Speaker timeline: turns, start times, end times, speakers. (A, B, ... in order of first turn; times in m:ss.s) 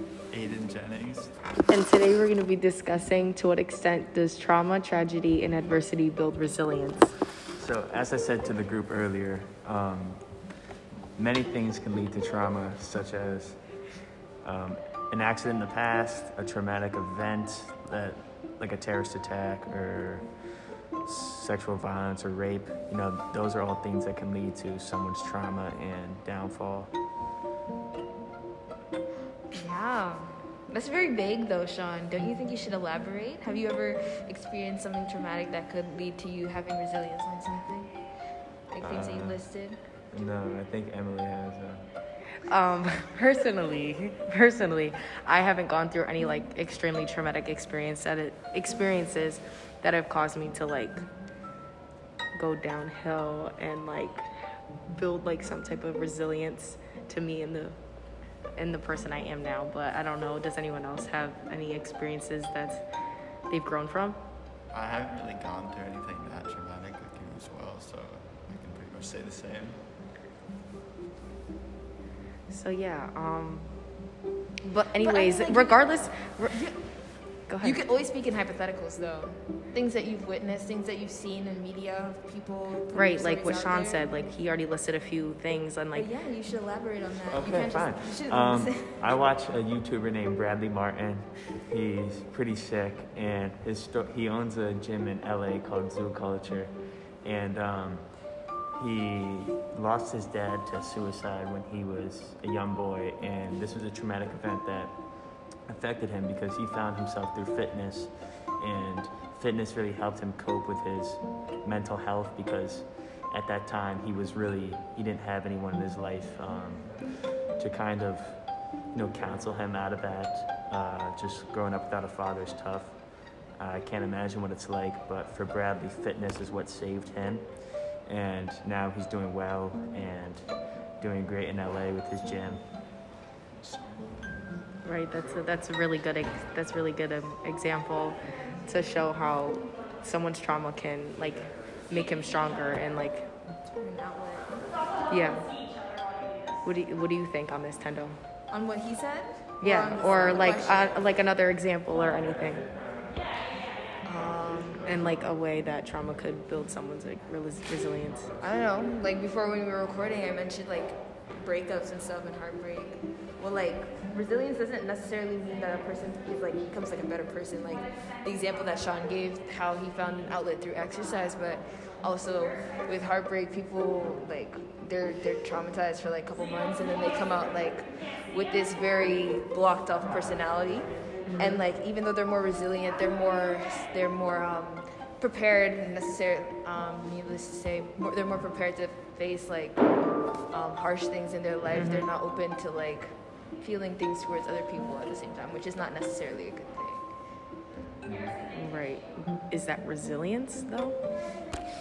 0:00.3-0:01.4 A
0:01.7-0:07.1 B
0:07.6-0:10.4 C
0:11.2-0:13.8 C
0:14.4-0:20.3 C
0:21.0-0:26.9 C
0:29.5-0:38.0 D
0:38.7-0:39.8 D
0:38.8-0:39.5 C
0:40.0-0:41.8 C
0:42.5-0:51.0 B
0:52.3-0:54.3 B
0:54.9-0:57.8 B
0:58.6-1:02.9 B
1:03.5-1:04.2 B
1:04.7-1:09.8 A
1:12.5-1:14.0 B
1:14.6-1:16.6 B
1:15.0-1:16.9 D
1:17.4-1:17.8 B
1:17.6-1:24.1 D
1:22.9-1:26.1 B
1:25.9-1:29.0 D
1:27.3-2:12.7 C
2:13.5-2:14.6 A
2:14.8-2:23.3 B
2:23.7-2:24.9 D
2:25.1-2:25.6 B
2:26.6-2:28.2 B
2:28.5-2:31.2 D
2:29.6-2:32.7 B
2:34.0-2:35.0 D
2:34.1-2:34.4 C
2:34.8-2:38.3 B
2:38.4-3:09.9 D
3:01.3-3:01.6 B
3:10.5-3:17.0 D
3:11.7-3:12.1 B
3:18.0-3:18.4 C
3:18.5-3:21.0 B